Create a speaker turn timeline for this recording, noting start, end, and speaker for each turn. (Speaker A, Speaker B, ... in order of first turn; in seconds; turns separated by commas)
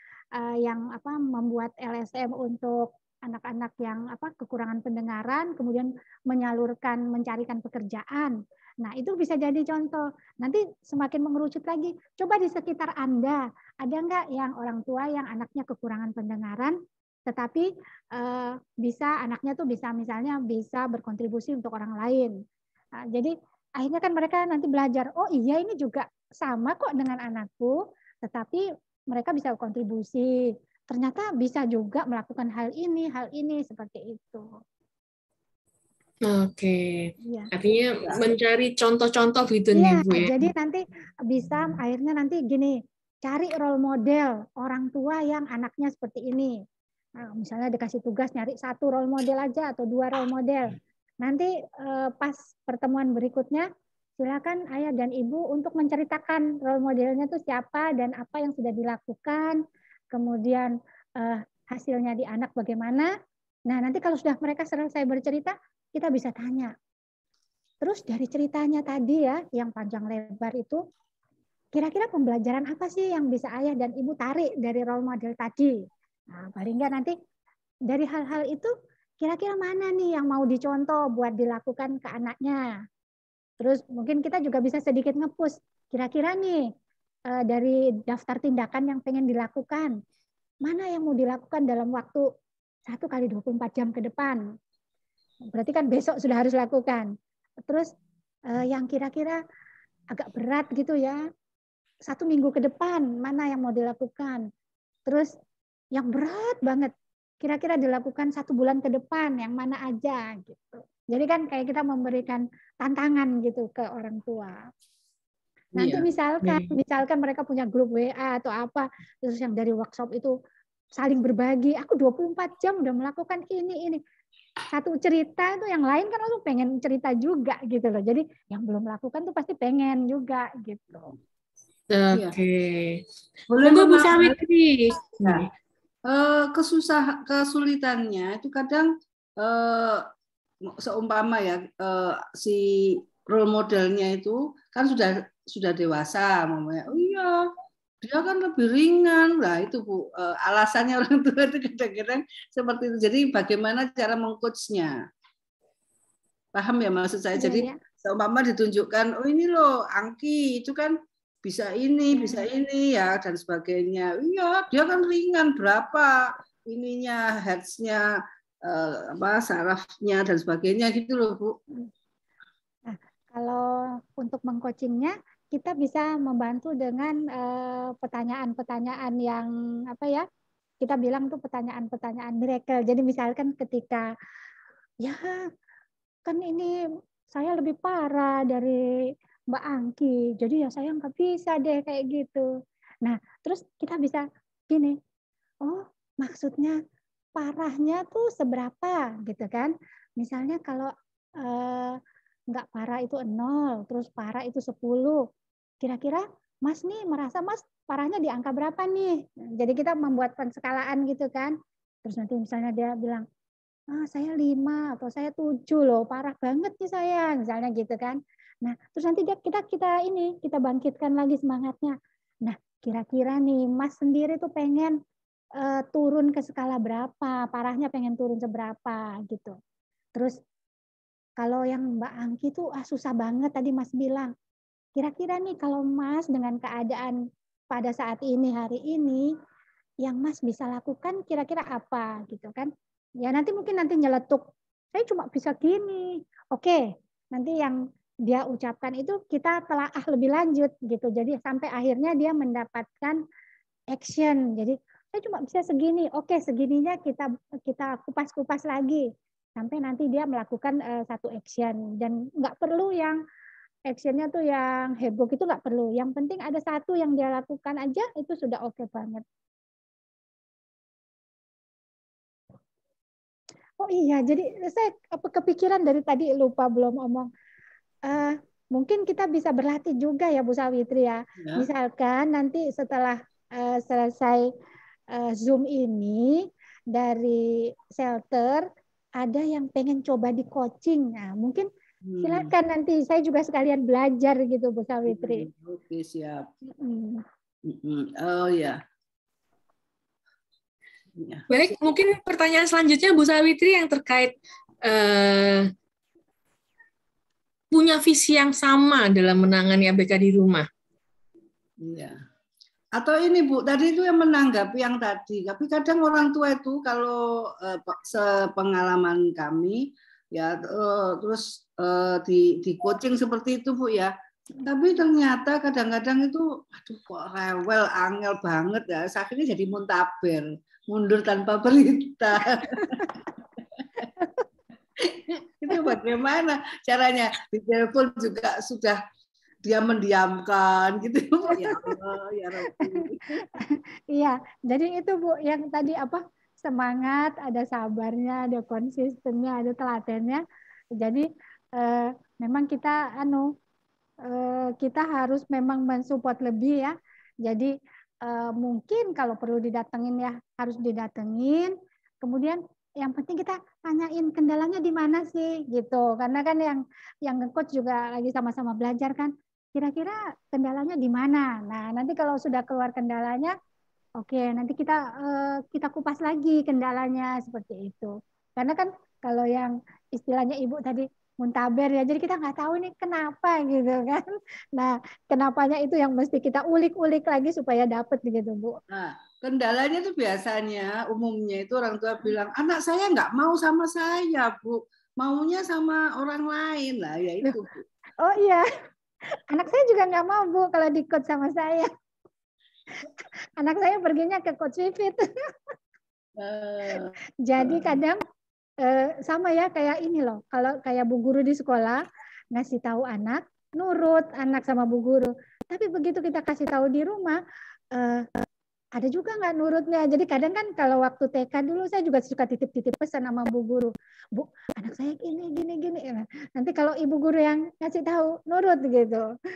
Speaker A: 0.3-22.4, Speaker A: 23.0-34.5, Speaker B: 36.3-40.4, Speaker A: 37.2-37.5, Speaker A: 39.7-46.6, Speaker A: 47.2-53.7, Speaker A: 54.2-59.6, Speaker A: 60.1-63.1, Speaker A: 63.7-66.7, Speaker A: 67.8-70.8, Speaker A: 71.7-77.1, Speaker A: 77.9-82.7, Speaker A: 83.6-86.7, Speaker A: 87.3-90.0, Speaker A: 90.6-92.2, Speaker A: 92.9-94.4, Speaker A: 95.5-97.1, Speaker A: 97.7-97.9, Speaker A: 98.5-99.4, Speaker A: 100.1-101.2, Speaker A: 102.0-104.5, Speaker A: 105.1-105.3, Speaker A: 105.9-114.6, Speaker C: 115.8-116.7, Speaker A: 115.8-120.3, Speaker A: 121.0-124.0, Speaker A: 124.7-131.1, Speaker B: 131.9-133.0, Speaker C: 133.5-134.4, Speaker B: 133.6-135.5, Speaker C: 136.1-140.1, Speaker C: 140.7-155.0, Speaker C: 156.6-171.6, Speaker A: 157.4-157.8, Speaker A: 162.1-162.5, Speaker A: 172.9-180.3, Speaker A: 180.8-184.1, Speaker A: 185.0-185.5, Speaker A: 186.3-186.8, Speaker A: 187.3-192.5, Speaker A: 193.0-195.0, Speaker A: 195.6-196.8, Speaker A: 197.3-205.2, Speaker A: 205.8-213.3, Speaker A: 213.9-225.0, Speaker A: 225.6-229.6, Speaker A: 230.2-230.4, Speaker A: 231.4-234.3, Speaker A: 234.9-237.2, Speaker A: 237.7-239.3, Speaker A: 240.0-242.7, Speaker A: 243.2-253.2, Speaker A: 253.9-263.2, Speaker A: 263.9-269.2, Speaker A: 273.8-277.3, Speaker A: 278.1-284.5, Speaker C: 281.4-281.7, Speaker A: 285.1-288.7, Speaker A: 289.2-291.7, Speaker C: 292.1-292.5, Speaker A: 292.2-295.5, Speaker C: 295.1-296.5, Speaker A: 296.7-297.2, Speaker C: 297.7-298.8, Speaker C: 301.2-301.5, Speaker B: 301.5-305.7, Speaker B: 307.7-310.7, Speaker C: 311.8-312.2, Speaker C: 313.0-333.2, Speaker A: 334.2-334.4, Speaker C: 335.0-339.0, Speaker C: 339.6-343.4, Speaker A: 341.5-342.0, Speaker A: 342.7-350.4, Speaker A: 351.0-353.6, Speaker A: 354.2-373.6, Speaker A: 374.2-388.8, Speaker C: 388.9-397.9, Speaker A: 398.2-398.7, Speaker A: 399.3-401.9, Speaker A: 403.0-405.8, Speaker C: 406.4-408.0, Speaker A: 407.4-408.2, Speaker A: 408.8-412.0, Speaker A: 412.5-417.4, Speaker A: 417.9-418.4, Speaker A: 418.9-429.3